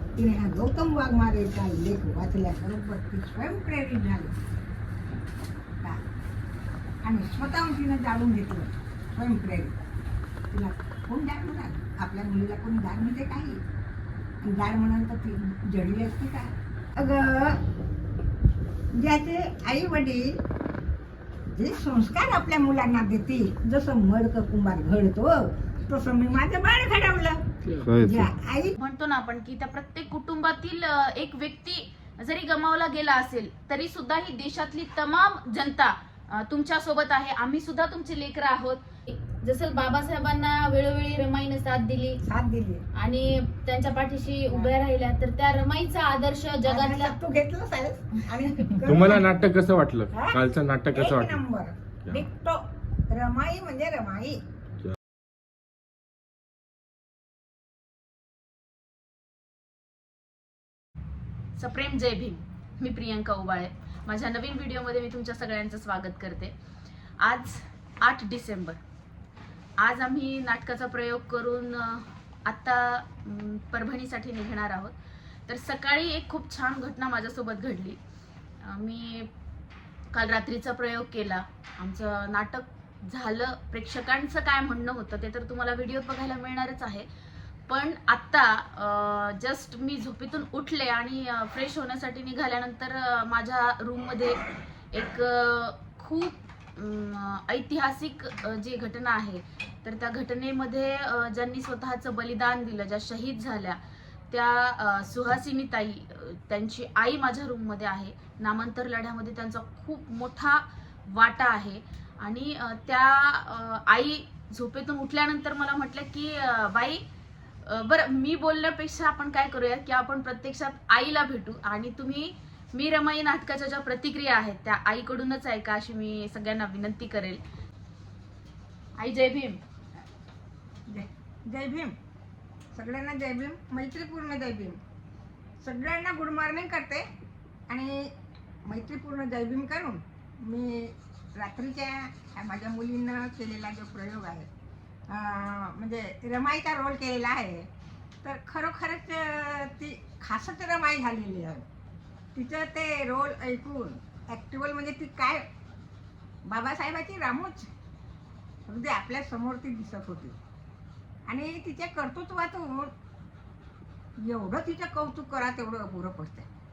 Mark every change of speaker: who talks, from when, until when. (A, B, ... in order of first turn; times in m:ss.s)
0:00.2-0:04.3 A
0:07.0-0:09.8 A
0:10.5-0:13.6 A
0:14.4-0:17.6 A
0:18.9-0:20.4 A
0:21.6-0:27.4 A
0:27.8-0:28.3 B
0:28.0-0:28.8 A
0:28.8-0:42.2 C
0:42.2-0:42.8 A
0:42.9-0:47.2 C
0:46.6-0:49.2 A
0:48.8-0:51.4 B
0:50.1-0:50.4 A
0:50.9-0:54.4 A
1:01.6-1:06.5 C
1:07.2-1:08.8 C
1:09.8-1:14.9 C
1:15.5-1:18.0 C
1:18.6-1:19.3 C
1:20.1-1:27.1 C
1:27.7-1:43.8 C
1:44.3-1:57.0 C
1:57.6-2:07.4 C
2:09.0-2:09.6 C
2:10.9-2:11.9 A
2:12.7-2:14.8 A
2:15.6-2:17.0 A
2:17.7-2:18.1 A
2:18.6-2:24.5 A
2:25.1-2:27.7 A
2:28.2-2:31.6 A
2:32.3-2:35.4 A
2:36.4-2:37.7 A
2:38.6-2:40.4 A
2:41.3-2:42.9 A
2:44.2-2:46.5 A